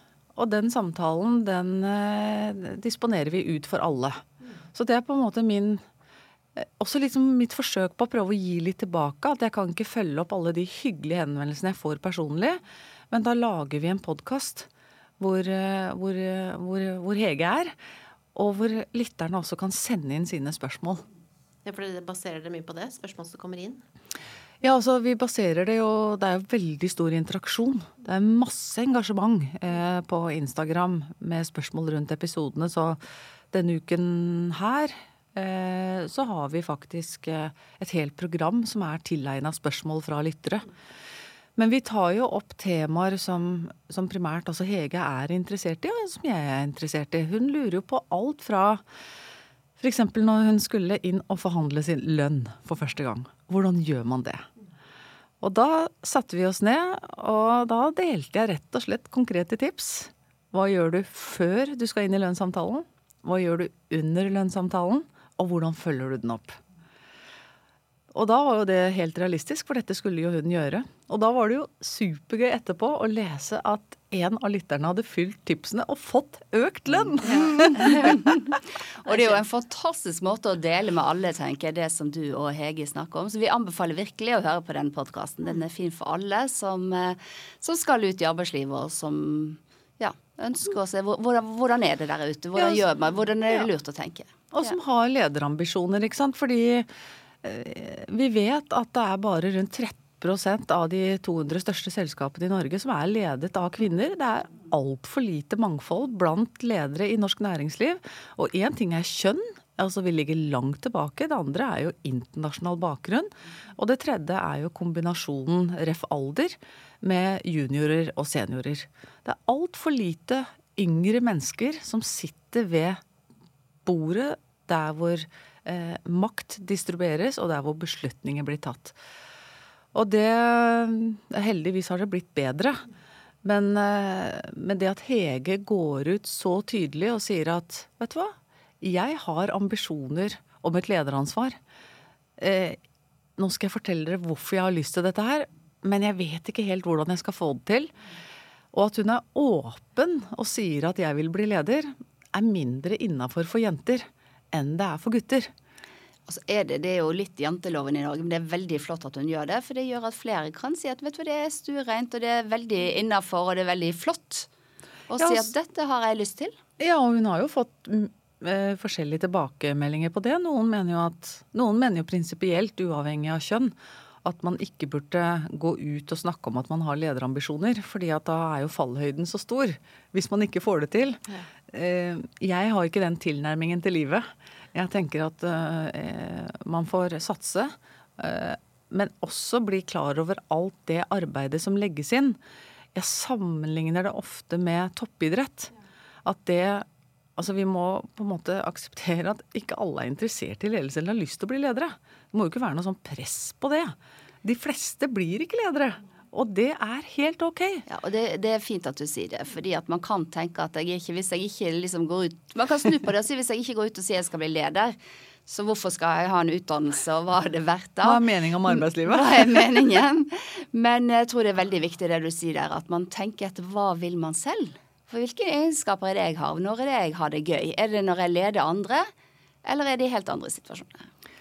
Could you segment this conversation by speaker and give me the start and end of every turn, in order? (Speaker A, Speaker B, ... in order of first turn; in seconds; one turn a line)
Speaker A: 0.4-5.8
Speaker A: 6.5-14.7
Speaker A: 15.2-17.8
Speaker A: 18.4-21.0
Speaker B: 21.6-23.8
Speaker A: 24.6-33.0
Speaker A: 33.5-40.7
Speaker A: 41.6-48.8
Speaker A: 49.8-54.5
Speaker A: 55.4-66.6
Speaker A: 68.1-78.5
Speaker B: 77.2-78.2
Speaker C: 77.2-94.8
Speaker A: 92.5-92.9
Speaker A: 94.5-96.9
Speaker A: 97.4-123.0
Speaker A: 123.8-129.0
Speaker A: 129.9-132.8
Speaker A: 133.4-141.6
Speaker A: 142.4-142.8
Speaker A: 143.4-147.9
Speaker A: 148.7-155.5
Speaker C: 156.3-164.5
Speaker C: 165.1-166.6
Speaker A: 165.2-165.5
Speaker A: 166.8-192.4
Speaker A: 192.9-195.7
Speaker A: 196.2-196.9
Speaker A: 197.4-207.8
Speaker C: 207.9-229.1
Speaker A: 218.0-219.8
Speaker C: 229.7-231.1